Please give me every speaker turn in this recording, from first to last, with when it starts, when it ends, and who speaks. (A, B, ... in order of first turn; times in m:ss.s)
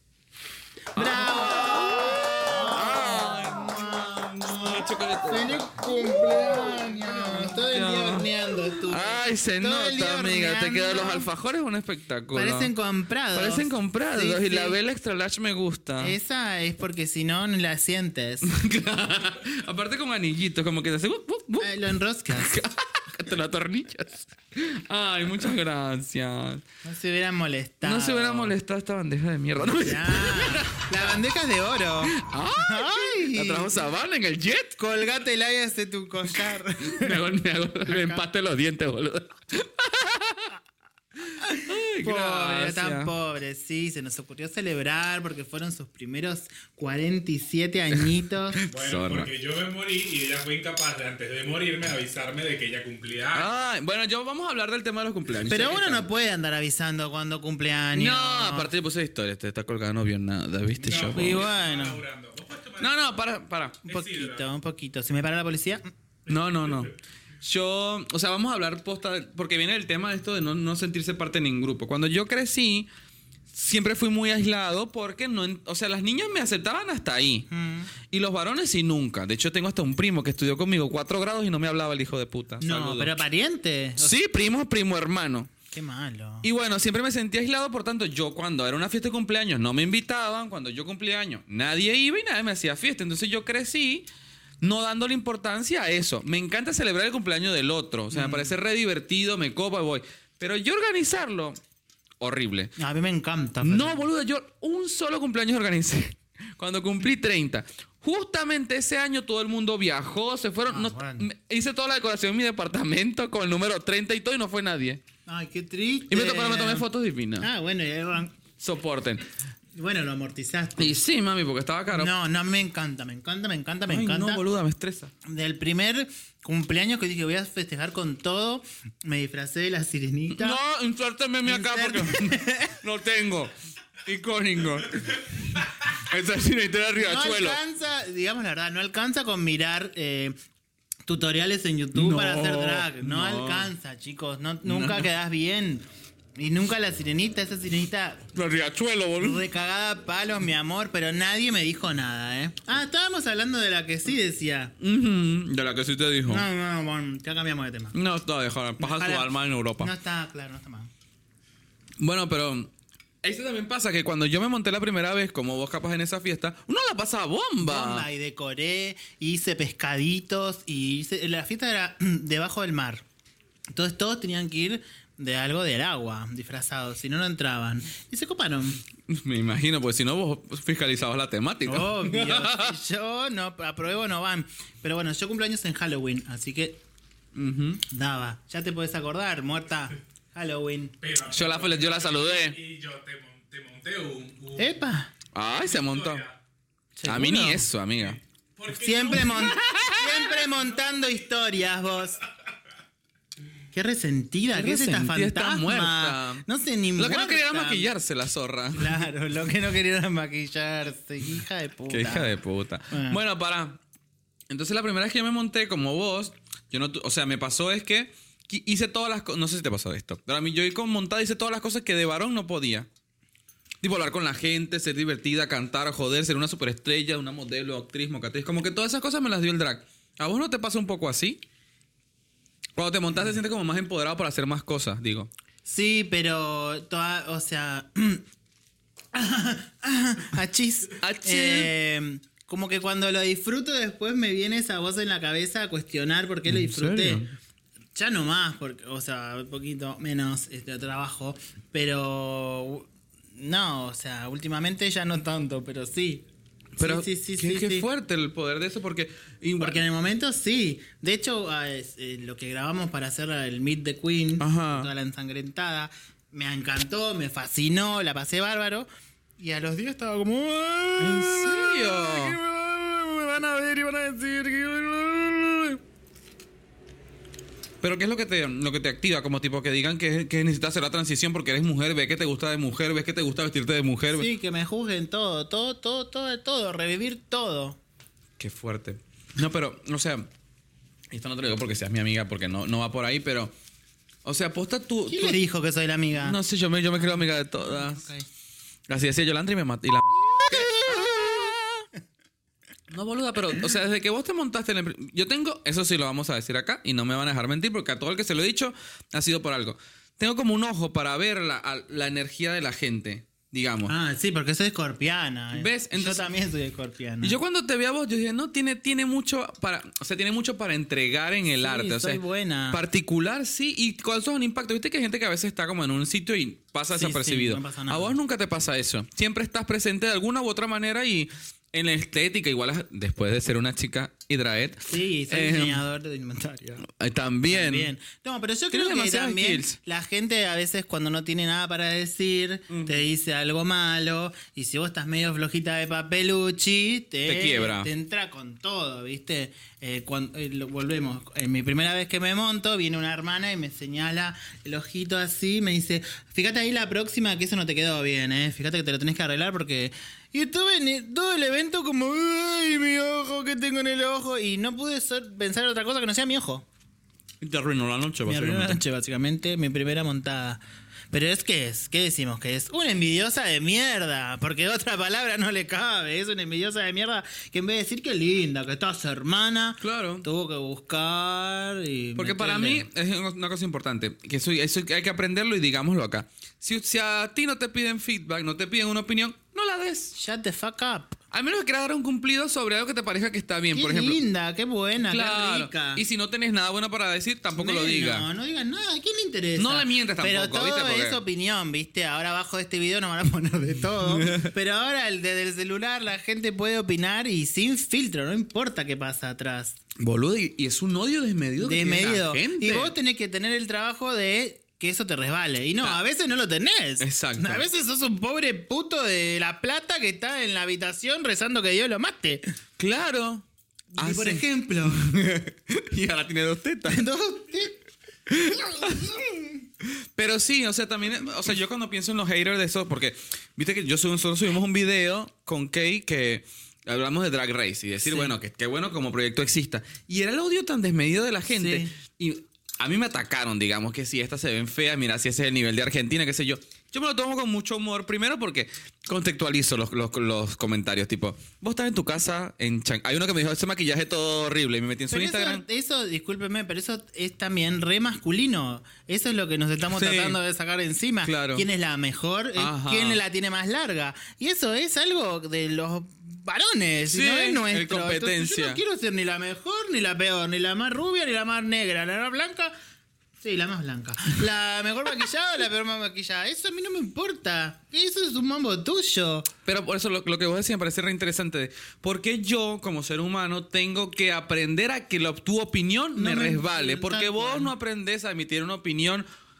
0:00.9-0:11.3 A
0:01.0-0:12.7 B
0:12.3-0:14.8 A
0:13.3-0:16.2 B
0:16.0-0:18.5 A
0:18.4-0:21.8 B
0:21.6-0:22.7 A
0:22.3-0:26.6 B
0:26.8-0:28.5 A
0:27.8-0:31.2 B
0:29.7-0:33.8 A
0:32.0-0:34.8 B
0:34.8-0:37.2 A
0:36.3-0:40.6 B
0:37.8-0:38.2 A
0:41.4-0:48.6 A
0:41.5-0:43.1 B
0:47.9-0:49.3 B
0:48.7-0:53.5 C
0:53.3-0:56.1 B
0:55.5-0:58.7 A
0:57.9-1:01.5 B
1:00.8-1:03.2 C
1:01.1-1:02.0 A
1:02.8-1:03.8 B
1:03.8-1:04.5 C
1:03.8-1:05.8 A
1:06.3-1:12.9 B
1:06.3-1:06.9 C
1:13.5-1:17.5 B
1:17.5-1:17.9 A
1:18.0-1:23.1 B
1:22.6-1:24.1 A
1:24.0-1:25.5 B
1:25.7-1:26.5 A
1:26.4-1:34.1 B
1:34.6-1:41.6 B
1:38.1-1:38.5 A
1:42.2-1:42.7 B
1:42.8-1:44.1 A
1:43.6-1:55.0 B
1:50.7-1:51.3 A
1:55.2-1:56.8 A
1:56.1-1:57.5 B
1:57.4-1:58.4 A
1:58.6-1:59.2 B
1:59.7-2:01.0 A
2:00.8-2:02.1 B
2:01.9-2:04.4 A
2:03.9-2:05.1 B
2:05.2-2:10.6 A
2:10.3-2:13.5 B
2:11.4-2:12.8 A
2:14.0-2:17.6 B
2:17.0-2:20.4 A
2:21.1-2:25.8 A
2:21.9-2:23.7 B
2:24.6-2:25.1 B
2:26.4-2:28.3 A
2:28.3-2:29.4 B
2:29.2-2:34.7 A
2:34.8-2:36.4 B
2:36.2-2:37.9 A
2:37.9-2:39.9 B
2:38.8-2:40.9 A
2:42.0-2:42.7 B
2:43.2-2:48.1 B
2:47.6-2:53.0 A
2:53.7-2:58.8 A
2:59.0-3:02.8 B
3:01.6-3:06.8 A
3:07.3-3:07.8 B
3:07.8-3:10.9 A
3:11.0-3:14.8 C
3:11.3-3:12.6 B
3:14.6-3:15.1 A
3:15.3-3:16.2 B
3:15.6-3:16.4 C
3:17.0-3:17.6 A
3:17.0-3:18.2 B
3:18.1-3:19.7 C
3:18.7-3:22.2 A
3:19.3-3:20.4 B
3:20.4-3:21.1 C
3:23.7-3:27.9 A
3:24.5-3:26.4 B
3:27.0-3:29.0 B
3:28.7-3:32.4 A
3:31.9-3:33.8 B
3:32.9-3:33.2 A
3:34.5-3:42.9 B
3:43.8-3:51.4 B
3:52.8-3:55.3 B
3:55.6-3:58.2 A
3:59.1-4:07.2 A
4:01.0-4:01.7 B
4:06.4-4:07.3 B
4:07.9-4:16.2 A
4:16.8-4:19.8 B
4:16.8-4:17.8 A
4:19.6-4:28.9 A
4:24.4-4:24.9 B
4:29.4-4:35.1 A
4:31.0-4:32.4 B
4:35.0-4:35.8 B
4:37.8-4:44.3 B
4:44.1-4:47.8 A
4:48.4-4:50.3 B
4:51.1-4:53.5 B
4:54.2-4:55.4 B
4:55.1-4:56.4 A
4:56.2-4:58.1 B
4:57.0-4:58.3 A
4:58.9-5:01.8 B
5:00.3-5:01.4 A
5:02.9-5:13.9 B
5:13.9-5:17.4 A
5:15.5-5:16.3 B
5:17.2-5:35.8 B
5:21.6-5:22.8 A
5:26.9-5:28.2 A
5:34.9-5:36.8 A
5:36.8-5:37.9 B
5:37.5-6:06.6 A
5:38.7-5:39.8 B
5:42.7-5:43.0 B
5:47.2-5:47.9 B
6:07.4-6:08.8 B
6:08.2-6:10.6 A
6:11.1-6:22.8 A
6:19.8-6:20.2 B
6:22.2-6:30.1 B
6:30.1-6:31.2 A
6:31.3-6:34.2 B
6:33.7-6:36.0 A
6:35.1-6:38.3 B
6:37.5-6:49.8 A
6:39.6-6:41.2 B
6:44.0-6:44.5 B
6:50.0-6:52.9 B
6:51.6-7:02.5 A
6:57.0-6:57.6 B
7:02.8-7:07.0 B
7:03.9-7:05.1 A
7:06.9-7:07.8 A
7:08.3-7:09.2 B
7:08.5-7:09.6 A
7:09.8-7:35.6 B
7:18.0-7:18.3 A
7:21.5-7:21.9 A
7:35.1-7:52.7 A
7:39.9-7:40.4 B
7:41.2-7:41.6 B
7:42.6-7:43.2 B
7:47.1-7:48.8 B
7:53.4-7:59.5 A
7:59.6-8:09.3 B
8:06.1-8:07.7 A